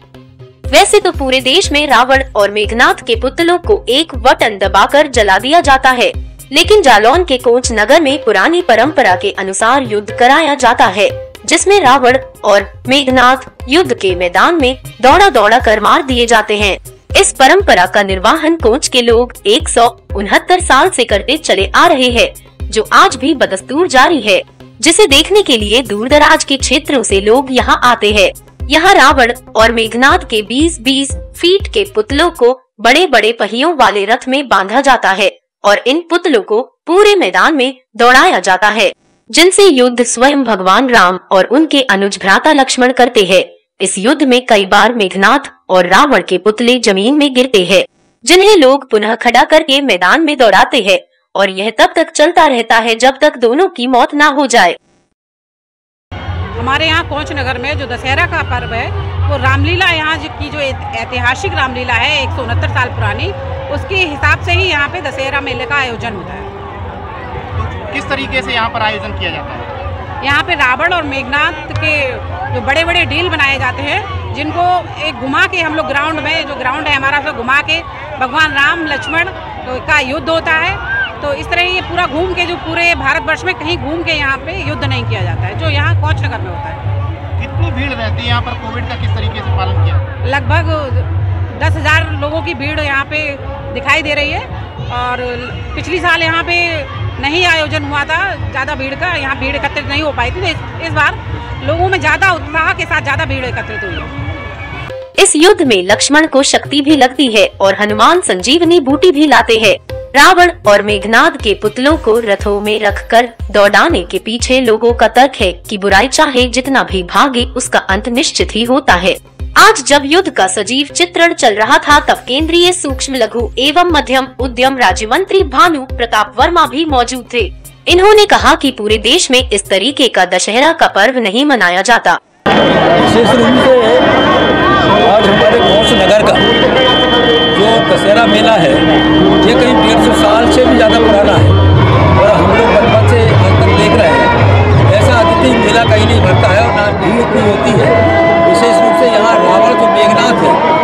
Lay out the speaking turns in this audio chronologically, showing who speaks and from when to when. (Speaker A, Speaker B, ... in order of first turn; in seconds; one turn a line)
Speaker A: 0.7-54.8
Speaker B: 56.6-66.5
Speaker C: 67.5-69.7
Speaker B: 70.2-86.8
Speaker C: 87.4-90.0
Speaker B: 90.2-104.1
Speaker A: 105.2-132.2
Speaker D: 133.0-134.1
Speaker D: 135.0-136.5
Speaker D: 137.5-138.8
Speaker D: 139.4-141.6
Speaker D: 142.2-144.3
Speaker D: 144.9-150.6